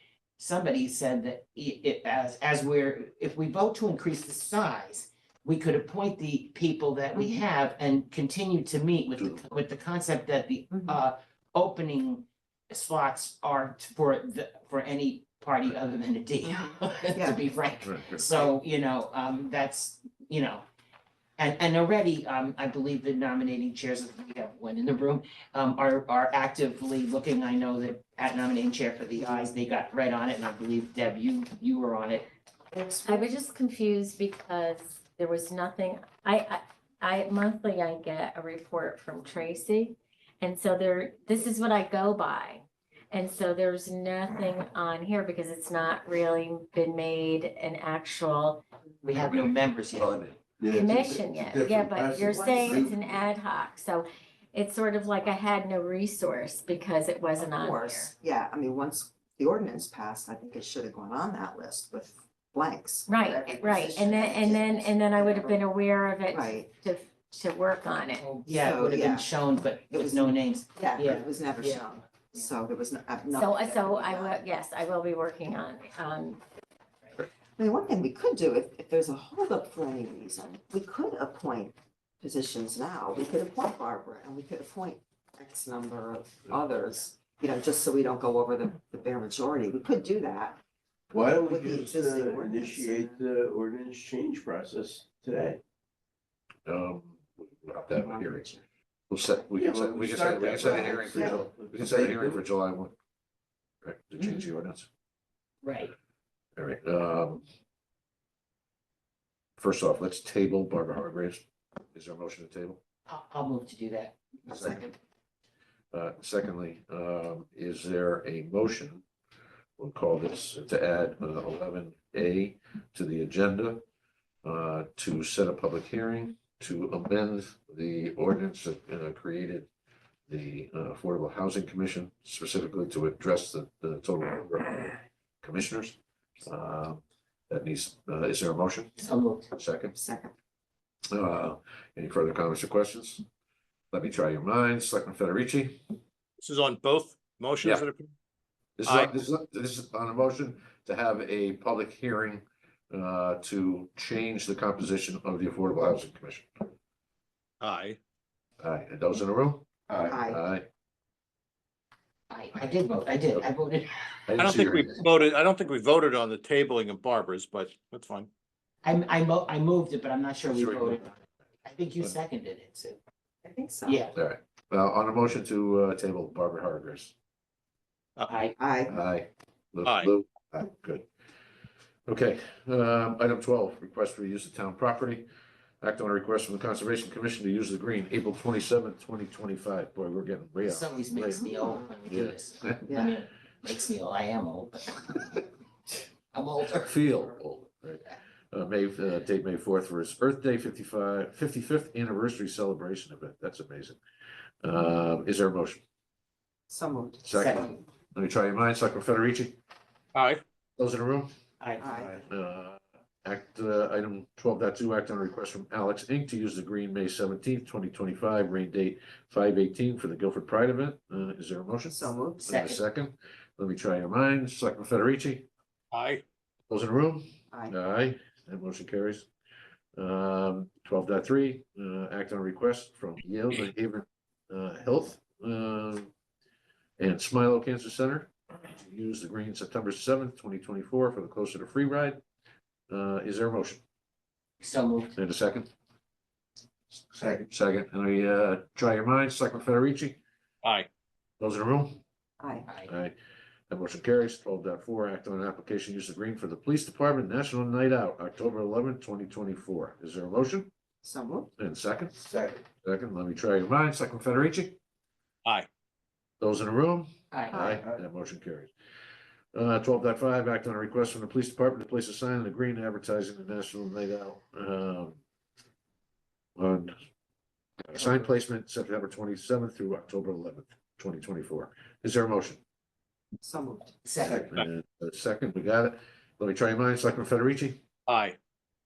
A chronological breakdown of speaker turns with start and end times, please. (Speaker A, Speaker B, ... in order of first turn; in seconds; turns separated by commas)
Speaker A: 0.4-20.6, Speaker B: 9.2-9.4, Speaker C: 16.4-17.4, Speaker B: 17.8-18.4, Speaker A: 21.4-32.3, Speaker C: 29.2-29.5, Speaker C: 32.7-33.3, Speaker D: 33.0-48.6, Speaker A: 49.0-50.2, Speaker B: 49.1-50.4, Speaker E: 50.6-53.2, Speaker D: 50.7-58.1, Speaker C: 57.4-65.6, Speaker D: 63.1-68.3, Speaker C: 66.3-66.7, Speaker A: 68.2-71.9, Speaker C: 68.4-69.3, Speaker C: 69.9-74.4, Speaker D: 73.4-76.4, Speaker C: 77.6-90.6, Speaker E: 91.1-95.6, Speaker C: 91.4-93.2, Speaker B: 96.7-98.5, Speaker C: 97.9-98.6, Speaker B: 99.1-102.9, Speaker E: 99.5-102.4, Speaker C: 100.9-101.4, Speaker B: 103.8-104.9, Speaker A: 105.6-105.9, Speaker B: 106.6-107.4, Speaker B: 109.6-112.8, Speaker A: 113.1-114.2, Speaker C: 114.5-114.9, Speaker B: 114.5-114.9, Speaker B: 115.9-119.0, Speaker B: 119.8-123.8, Speaker B: 124.4-129.7, Speaker B: 130.3-138.9, Speaker A: 139.0-139.5, Speaker B: 139.5-139.9, Speaker C: 139.9-140.3, Speaker B: 141.1-143.2, Speaker B: 143.9-145.8, Speaker F: 146.4-148.1, Speaker B: 148.8-156.7, Speaker F: 148.8-149.2, Speaker F: 157.6-158.0, Speaker B: 158.6-159.7, Speaker C: 160.1-160.4, Speaker B: 160.2-160.7, Speaker A: 162.3-163.9, Speaker B: 164.3-165.0, Speaker F: 164.3-168.3, Speaker A: 168.8-173.0, Speaker B: 170.5-171.1, Speaker C: 173.4-174.1, Speaker A: 173.8-174.1, Speaker B: 174.1-177.1, Speaker A: 178.3-178.5, Speaker C: 178.6-179.0, Speaker B: 178.9-181.1, Speaker F: 179.8-180.1, Speaker B: 182.1-185.2, Speaker B: 185.8-192.8, Speaker A: 190.6-195.4, Speaker A: 196.3-197.4, Speaker B: 196.7-204.0, Speaker B: 204.6-205.8, Speaker C: 206.7-207.7, Speaker B: 207.2-209.6, Speaker A: 207.4-207.8, Speaker F: 210.1-210.4, Speaker B: 210.8-211.3, Speaker A: 211.6-212.2, Speaker C: 211.8-212.1, Speaker B: 212.2-225.5, Speaker C: 221.9-222.4, Speaker A: 222.4-222.8, Speaker F: 225.9-226.2, Speaker B: 226.7-229.3, Speaker C: 227.5-227.8, Speaker B: 230.0-236.1, Speaker B: 237.0-242.2, Speaker B: 242.9-243.8, Speaker A: 244.6-245.1, Speaker B: 245.1-245.7, Speaker B: 247.0-250.2, Speaker F: 250.6-250.9, Speaker B: 251.4-252.0, Speaker C: 252.4-252.7, Speaker A: 252.7-252.9, Speaker B: 252.8-253.2, Speaker B: 253.7-260.7, Speaker C: 261.0-261.5, Speaker B: 261.6-262.1, Speaker E: 262.1-262.6, Speaker B: 262.8-264.8, Speaker B: 266.4-268.7, Speaker A: 267.3-267.6, Speaker C: 267.5-267.8, Speaker B: 269.5-275.2, Speaker B: 276.6-276.9, Speaker B: 277.8-282.6, Speaker C: 283.4-284.0, Speaker A: 284.1-284.5, Speaker E: 284.2-284.5, Speaker B: 284.3-287.8, Speaker F: 288.1-288.4